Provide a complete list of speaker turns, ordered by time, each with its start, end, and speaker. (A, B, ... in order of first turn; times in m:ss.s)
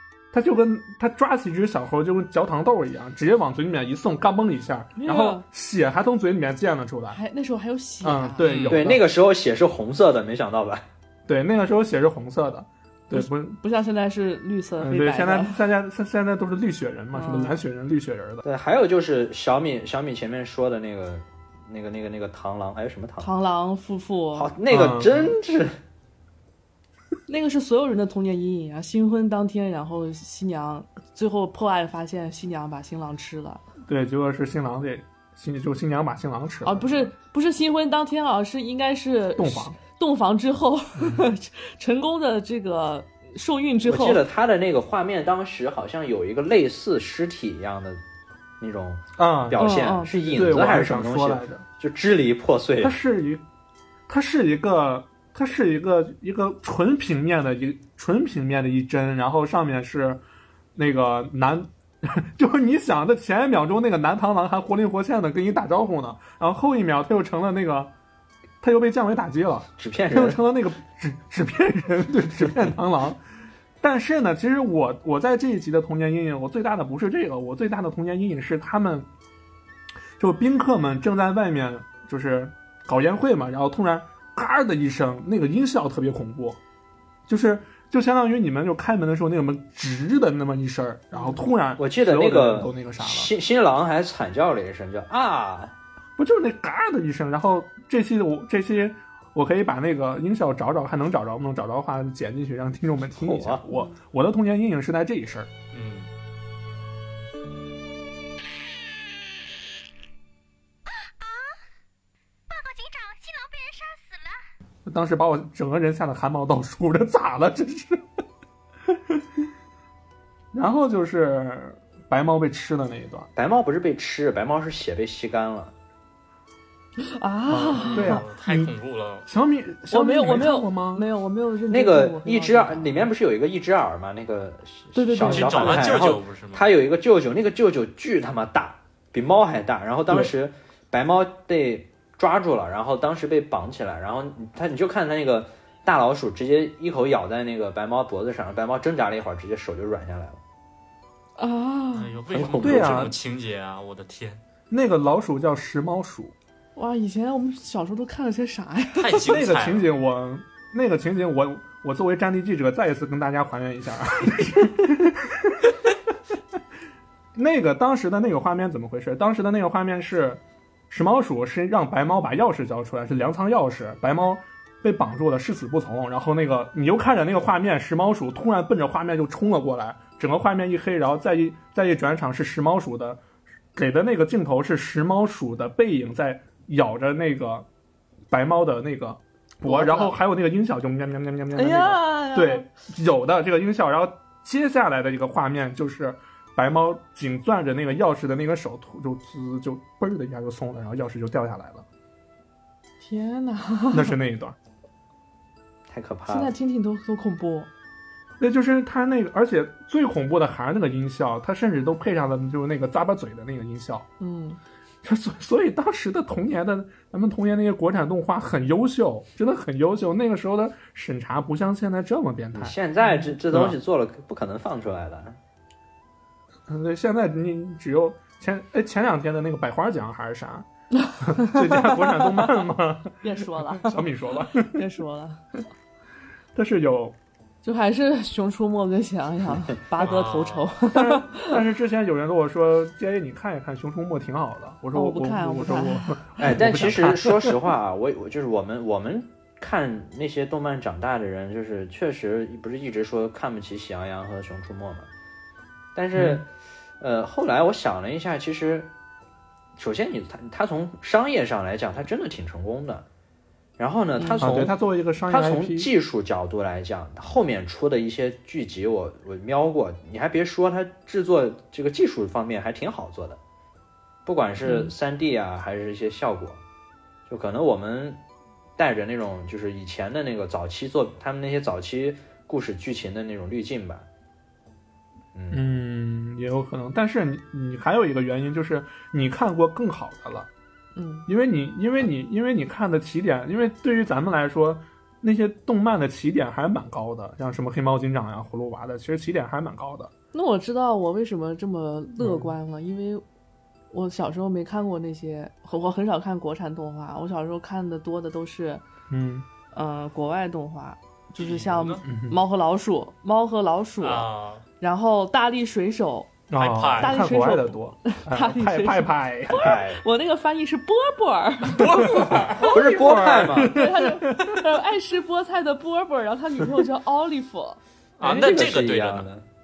0:00.3-0:07.2 A
0:05.0-0:05.4 B
0:07.1-0:08.5 B
0:08.0-0:09.0 A
0:08.4-0:08.9 C
0:08.7-0:10.8 D
0:11.3-0:13.6 A
0:13.1-0:15.6 B
0:14.8-0:18.4 A
0:17.1-0:17.5 B
0:18.4-0:23.3 D
0:23.2-0:24.5 B
0:24.3-0:25.8 D
0:24.7-0:25.4 A
0:27.3-0:33.6 B
0:33.9-0:37.1 A
0:36.6-0:44.2 B
0:39.4-0:39.7 A
0:43.8-0:48.0 D
0:48.6-0:53.0 D
0:49.2-0:49.7 A
0:49.6-0:50.5 B
0:50.3-0:51.6 A
0:52.8-0:53.4 A
0:54.1-1:00.2 A
1:00.7-1:07.9 A
1:08.6-1:13.2 A
1:09.8-1:10.4 D
1:13.8-1:19.1 A
1:20.2-1:26.6 A
1:27.3-1:33.3 A
1:31.1-1:31.4 B
1:31.8-1:35.7 D
1:36.2-1:45.5 A
1:43.2-1:43.6 D
1:45.7-1:46.1 C
1:51.0-1:51.5 E
1:52.5-1:54.4 E
1:54.8-1:58.0 A
1:58.9-1:59.4 A
2:00.5-2:03.3 A
2:03.3-2:05.7 D
2:07.0-2:08.2 B
2:07.5-2:08.7 A
2:07.8-2:09.2 C
2:09.2-2:11.0 A
2:09.9-2:13.0 B
2:11.7-2:30.4 D
2:14.9-2:15.9 B
2:15.2-2:16.7 C
2:20.1-2:20.3 A
2:31.4-2:32.1 B
2:31.9-2:34.4 C
2:32.3-2:33.1 D
2:32.6-2:33.2 A
2:34.7-2:36.3 A
2:36.8-2:39.2 B
2:39.0-2:39.9 C
2:39.3-2:45.7 A
2:47.3-3:03.2 A
3:03.7-3:07.7 A
3:08.3-3:21.8 A
3:09.6-3:10.2 B
3:11.5-3:12.7 B
3:23.0-3:24.1 B
3:23.9-3:24.6 A
3:25.9-3:26.5 D
3:26.3-3:27.7 B
3:28.4-3:34.1 A
3:34.2-3:34.6 B
3:35.0-3:42.8 A
3:42.5-3:45.4 D
3:43.5-3:43.8 A
3:46.7-3:50.7 A
3:51.1-3:51.8 B
3:51.2-3:54.8 A
3:53.2-3:54.0 B
3:54.6-3:55.4 B
3:56.5-3:57.2 A
3:57.6-4:01.5 B
4:00.0-4:00.7 C
4:00.9-4:07.6 A
4:04.9-4:06.2 B
4:06.4-4:15.1 D
4:15.9-4:16.5 D
4:16.1-4:16.4 A
4:17.0-4:18.9 D
4:19.8-4:23.0 D
4:23.8-4:24.7 D
4:24.2-4:24.5 B
4:24.4-4:25.9 A
4:25.3-4:33.4 D
4:34.2-4:36.6 D
4:34.6-4:34.9 B
4:37.3-4:38.2 D
4:38.8-4:44.1 D
4:45.3-4:45.6 D
4:45.5-4:50.5 A
4:50.9-4:51.3 B
4:51.3-5:00.1 A
5:00.3-5:03.2 B
5:02.2-5:02.5 A
5:03.9-5:08.8 B
5:09.1-5:09.5 A
5:09.7-5:14.3 B
5:11.4-5:12.0 C
5:12.0-5:12.4 A
5:14.0-5:14.6 C
5:14.8-5:16.4 B
5:16.5-5:19.7 A
5:16.5-5:17.2 C
5:17.0-5:27.8 B
5:19.6-5:20.0 D
5:21.7-5:22.7 C
5:21.8-5:24.6 A
5:22.7-5:23.8 D
5:28.2-5:29.3 C
5:28.2-5:29.4 D